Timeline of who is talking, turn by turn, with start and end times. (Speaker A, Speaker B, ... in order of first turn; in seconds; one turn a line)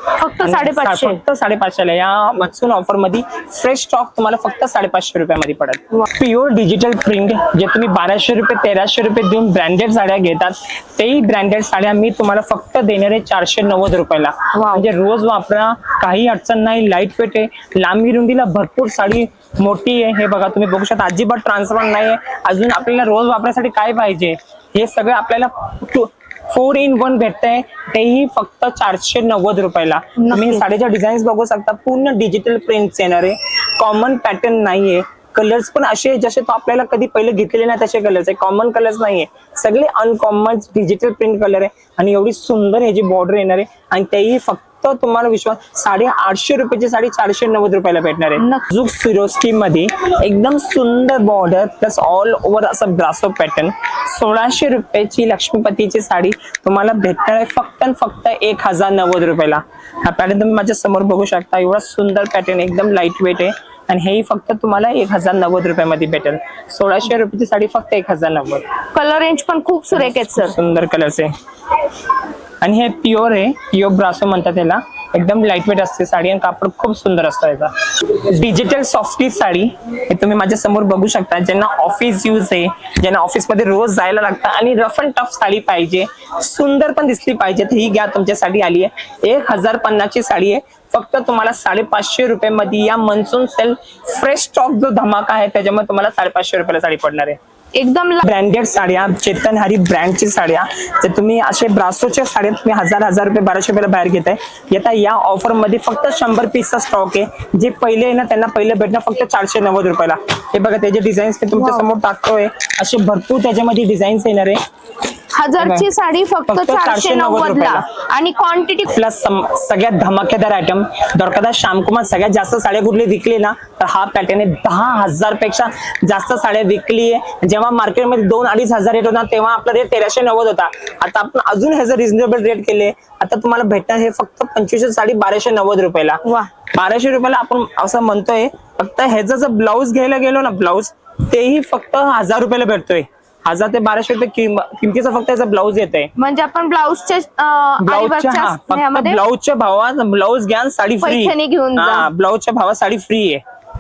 Speaker A: 0.2-1.2
Speaker B: 0.4-68.6
Speaker A: 14.5-14.8
Speaker A: 30.2-30.6
Speaker A: 48.4-48.6
Speaker A: 68.9-70.5
Speaker B: 69.9-71.3
Speaker B: 72.6-97.4
Speaker A: 97.7-98.2
Speaker B: 98.2-114.6
Speaker A: 111.5-111.9
Speaker A: 115.3-118.9
Speaker B: 115.6-115.9
Speaker B: 116.5-117.8
Speaker B: 118.9-136.2
Speaker A: 136.2-136.5
Speaker B: 136.7-146.1
Speaker A: 146.2-149.2
Speaker B: 147.8-153.4
Speaker A: 151.0-152.1